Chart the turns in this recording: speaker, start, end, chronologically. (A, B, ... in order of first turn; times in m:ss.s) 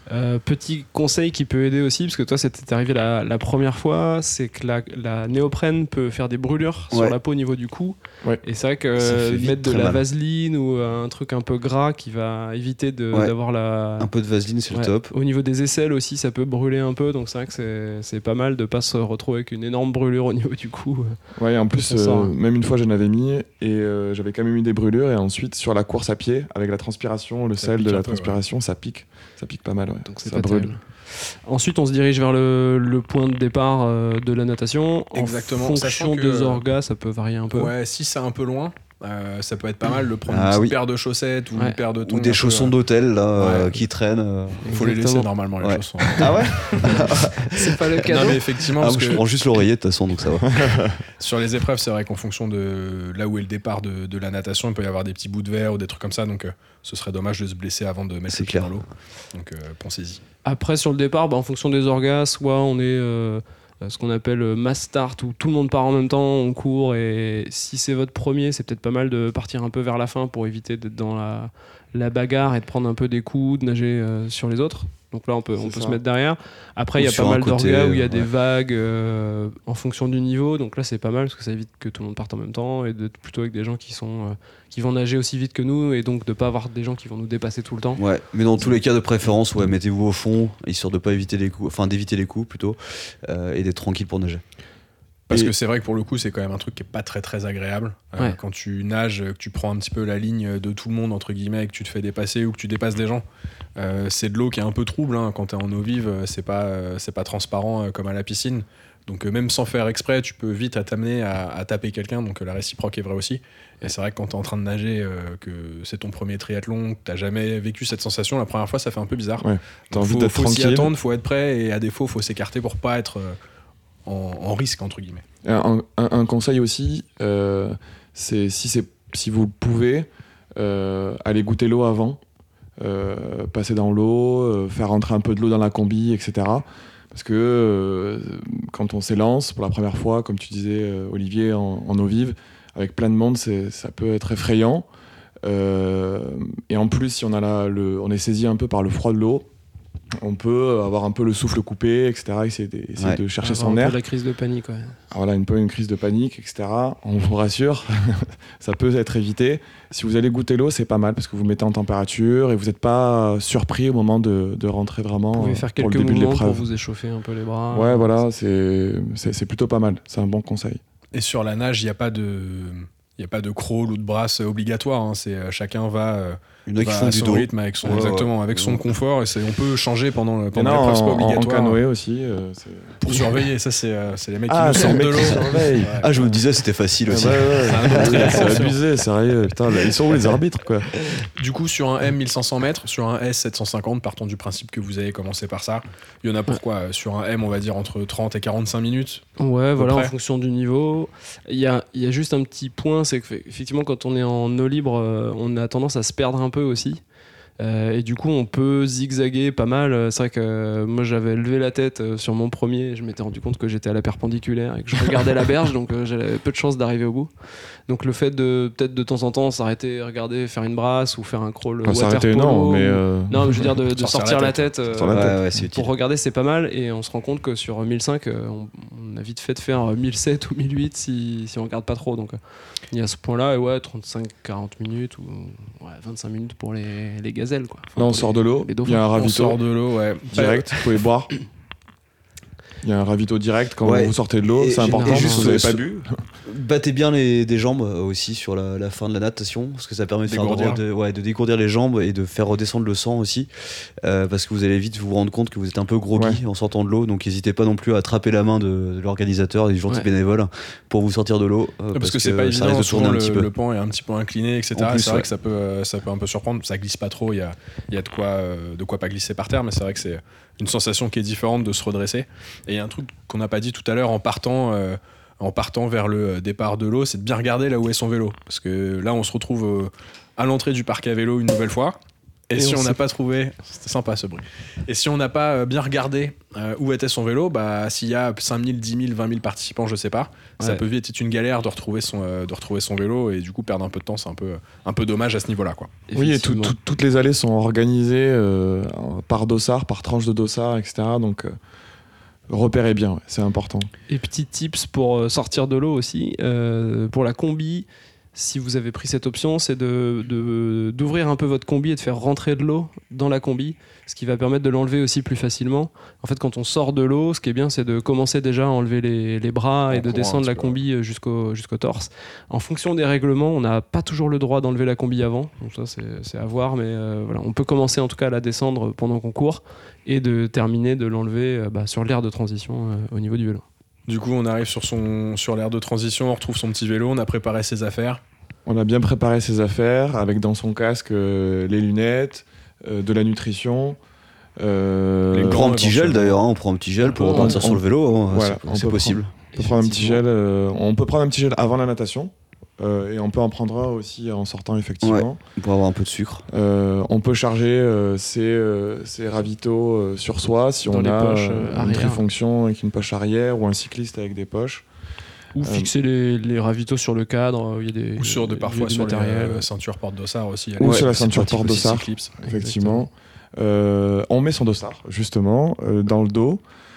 0:00.1-0:14.1 A
0:09.0-0:10.0 B
0:14.0-0:15.1 B
0:14.7-0:21.2 A
0:21.4-0:30.7 C
0:21.8-0:22.3 A
0:27.6-0:28.4 D
0:30.0-0:37.7 A
0:35.1-0:36.6 D
0:37.5-0:42.8 D
0:40.3-0:40.8 B
0:42.0-0:44.6 B
0:43.3-0:43.8 D
0:44.6-0:45.3 A
0:44.6-0:47.0 D
0:45.6-0:50.7 B
0:46.0-0:48.6 A
0:48.1-0:49.2 D
0:50.5-0:51.0 C
0:51.2-1:00.2 D
0:58.3-0:58.8 B
1:00.4-1:28.0 A
1:15.6-1:16.0 C
1:17.0-1:18.3 B
1:28.0-1:34.4 B
1:35.3-1:43.2 D
1:43.8-2:03.4 D
1:59.4-2:00.9 C
2:04.0-2:05.2 D
2:05.4-2:12.2 C
2:12.8-2:24.8 C
2:25.4-2:29.5 C
2:30.2-2:34.0 C
2:33.4-2:35.0 A
2:35.1-2:46.7 C
2:45.3-2:48.2 A
2:47.7-2:50.8 C
2:51.1-3:01.8 D
2:56.6-2:58.8 B
3:00.5-3:03.1 C
3:03.0-3:06.1 D
3:04.5-3:06.0 C
3:06.0-3:08.6 B
3:07.1-3:10.9 C
3:07.2-3:08.8 D
3:11.4-3:19.2 D
3:19.4-3:27.0 A
3:19.8-3:20.1 D
3:27.6-3:37.3 A
3:37.9-3:52.4 A
3:41.8-3:43.7 C
3:43.9-3:44.7 D
3:44.9-3:45.4 C
3:45.1-3:45.9 B
3:52.9-3:59.0 A
3:58.0-3:59.6 C
3:59.1-4:00.8 D
4:00.3-4:01.3 C
4:02.8-4:06.1 C
4:03.8-4:05.8 B
4:04.8-4:05.6 A
4:06.4-4:23.5 B
4:10.3-4:10.8 D
4:21.9-4:42.0 D
4:24.7-4:25.2 B
4:42.5-4:55.9 D
4:42.6-4:43.0 A
4:56.1-4:56.7 A
4:56.1-5:01.5 C
5:02.5-5:03.9 C
5:04.1-5:33.6 A
5:34.1-5:38.2 D
5:38.6-5:44.0 C
5:44.6-5:45.6 C
5:45.3-5:46.4 D
5:45.4-5:49.3 B
5:47.0-5:47.6 A
5:47.2-5:55.4 C
5:49.5-5:50.2 A
5:55.0-5:56.5 B
5:56.5-6:04.8 C
6:00.9-6:02.2 A
6:05.5-6:09.6 A
6:05.6-6:05.9 C
6:08.2-6:12.3 D
6:10.8-6:16.6 C
6:10.8-6:11.1 B
6:12.4-6:13.1 A